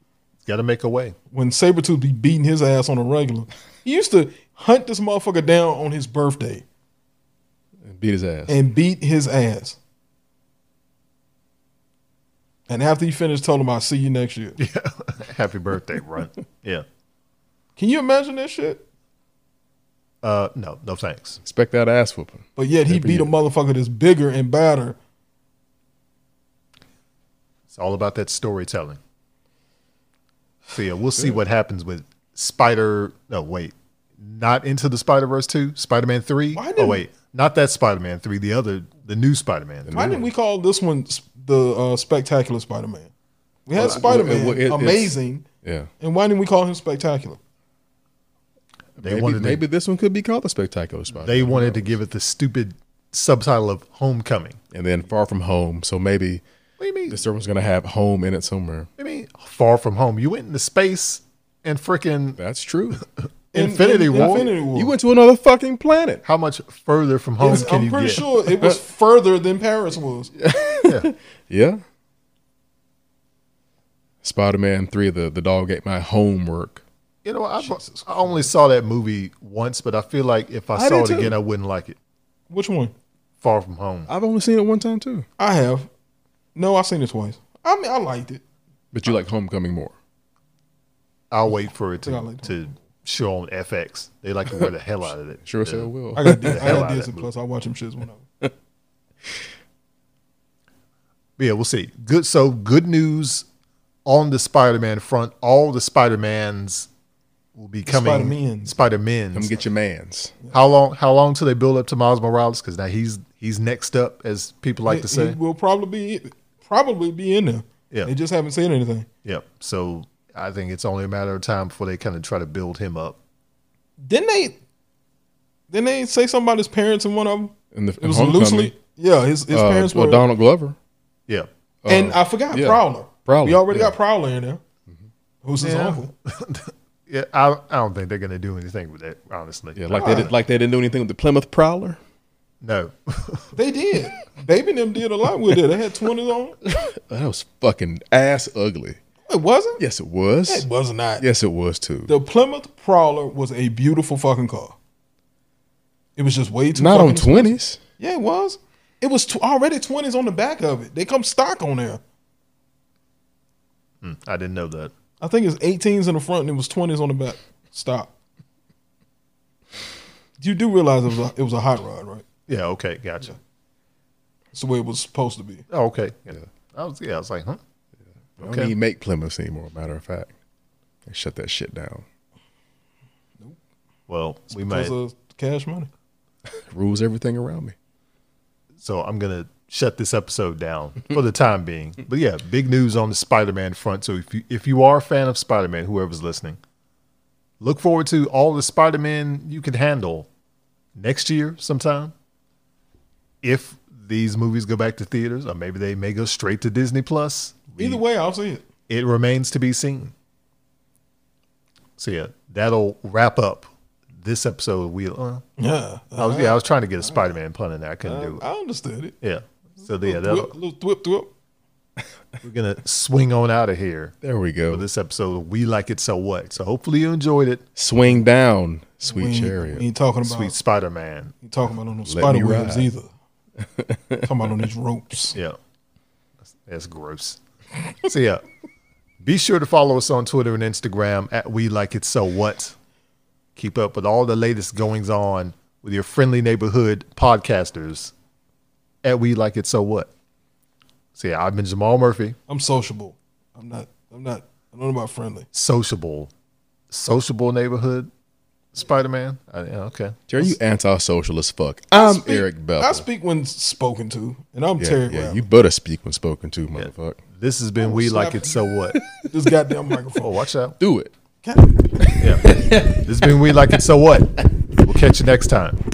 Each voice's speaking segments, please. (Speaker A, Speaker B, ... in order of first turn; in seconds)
Speaker A: 0.4-1.1, 14.6-16.8, 20.2-21.4, 27.7-29.0, 30.7-40.1, 49.0-49.6, 51.1-54.6, 56.8-57.2, 59.0-62.4, 63.5-64.5, 66.2-68.2, 77.2-82.0, 83.4-84.1, 91.3-95.9, 96.4-97.3, 101.4-103.5, 104.0-106.9, 107.5-109.7, 110.5-115.4, 119.2-123.2, 135.6-140.3, 142.6-143.5, 164.0-164.9, 172.5-173.3, 175.7-177.6, 178.4-178.7, 184.1-184.9, 188.8-196.6, 197.6-200.3, 200.9-202.1, 203.4-208.0, 208.9-210.1, 212.0-215.4, 216.2-218.4, 219.2-220.5, 222.4-224.1, 224.7-227.6, 230.2-231.3, 236.5-238.4, 239.2-242.7, 243.6-248.1, 249.0-250.1, 251.2-252.4, 255.5-256.3, 256.9-258.1, 258.7-260.4, 266.8-269.0, 270.2-270.8, 272.2-275.8
Speaker B: 1.3-6.6, 8.5-9.8, 12.7-14.6, 17.8-18.8, 22.6-25.0, 36.5-37.0, 39.9-43.1, 43.6-45.5, 46.0-47.4, 63.5-64.9, 67.4-70.3, 77.6-78.5, 80.8-81.3, 82.5-82.9, 85.4-85.9, 86.5-88.4, 92.0-92.5, 96.1-98.2, 107.9-108.7, 114.8-119.1, 124.0-124.6, 125.7-130.2, 131.9-134.6, 135.4-136.1, 139.9-140.3, 143.5-146.6, 149.3-149.8, 150.4-151.2, 152.1-154.8, 156.2-162.0, 165.2-168.1, 170.4-172.2, 174.5-175.6, 184.5-185.9, 207.8-208.6, 215.6-216.6, 218.0-219.1, 220.0-221.3, 229.1-230.5, 231.4-233.1, 234.2-235.4, 252.5-255.4, 261.9-265.5, 267.8-268.6, 269.2-270.3, 271.4-272.2
Speaker C: 7.8-8.6, 21.4-23.3, 39.8-40.2, 43.7-45.9, 49.0-51.9, 54.7-56.4, 57.1-58.9, 62.4-63.0, 64.1-66.2, 68.5-68.8, 70.4-71.8, 74.2-76.8, 84.1-85.2, 88.9-89.9, 95.5-96.8, 109.3-110.3, 127.7-128.7, 129.5-130.8, 131.8-133.9, 139.8-142.0, 146.6-149.0, 149.8-150.7, 151.2-152.1, 156.7-157.8, 178.4-180.3, 181.1-182.0, 186.6-187.7, 224.2-224.8, 227.8-229.8, 232.1-232.9, 233.6-234.5, 260.3-263.0, 264.8-267.2, 268.9-269.3, 270.8-271.1, 272.0-273.0